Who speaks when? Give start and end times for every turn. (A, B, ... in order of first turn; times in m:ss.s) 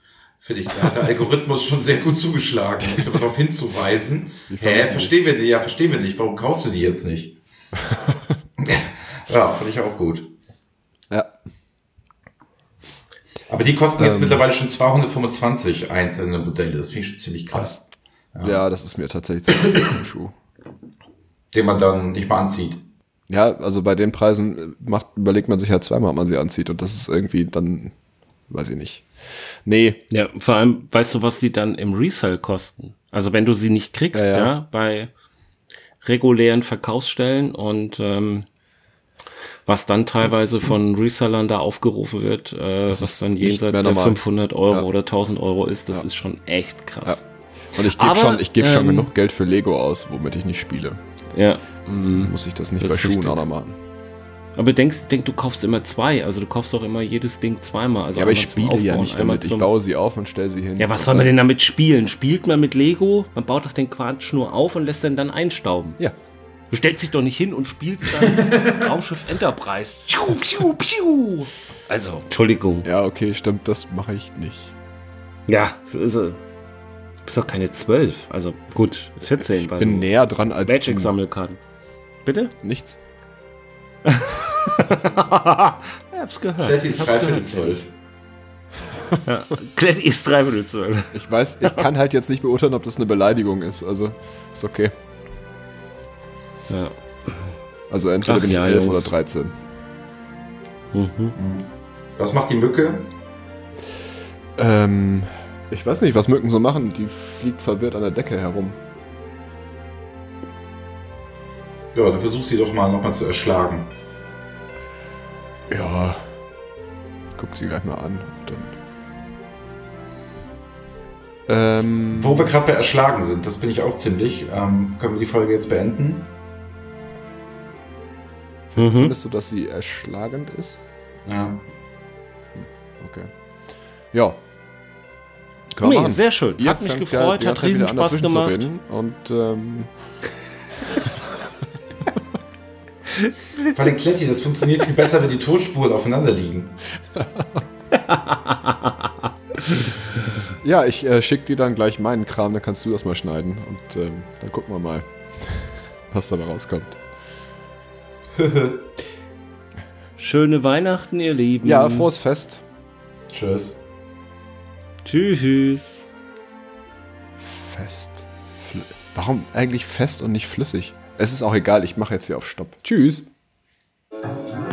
0:00.4-0:07.4 A
0:04.5-0:05.1 B
0:08.6-0:10.3 A
0:13.5-0:18.6 A
0:14.0-0:14.4 B
0:18.4-0:20.3 B
0:21.5-0:22.8 A
0:23.3-0:27.9 B
0:28.5-0:29.0 B
0:29.6-0:30.0 B
0:30.1-0:35.1 C
0:34.1-0:34.5 B
0:36.0-0:38.4 C
0:39.6-0:47.2 C
0:42.9-0:44.9 B
0:47.7-0:51.0 B
0:47.8-0:49.1 C
0:51.3-0:53.4 C
0:52.1-0:53.8 B
0:54.6-0:59.7 C
0:58.1-1:01.3 B
1:00.8-1:06.0 C
1:06.7-1:12.9 C
1:12.8-1:14.7 B
1:15.5-1:16.4 C
1:17.2-1:21.6 C
1:19.5-1:21.1 B
1:22.2-1:22.5 C
1:22.6-1:23.0 B
1:24.0-1:27.8 C
1:26.6-1:27.9 A
1:29.2-1:31.8 C
1:31.1-1:34.9 B
1:36.7-1:37.4 C
1:37.9-1:39.5 B
1:38.2-1:39.1 C
1:40.9-1:41.4 C
1:41.4-1:43.1 A
1:44.6-1:48.8 B
1:51.9-1:53.9 A
1:55.7-1:56.2 B
1:57.4-1:58.8 B
2:01.5-2:02.5 B
2:02.1-2:06.3 A
2:08.7-2:10.8 B
2:08.8-2:09.1 C
2:11.2-2:11.7 A
2:12.5-2:13.3 B
2:14.1-2:14.4 B
2:15.7-2:19.9 B
2:15.8-2:18.7 C
2:23.6-2:26.8 A
2:27.1-2:27.6 B
2:27.9-2:29.1 C
2:30.6-2:37.0 B
2:38.3-2:38.9 A
2:40.2-2:42.1 C
2:41.6-2:42.6 B
2:43.3-2:43.8 A
2:45.0-2:46.1 C
2:47.4-2:53.2 B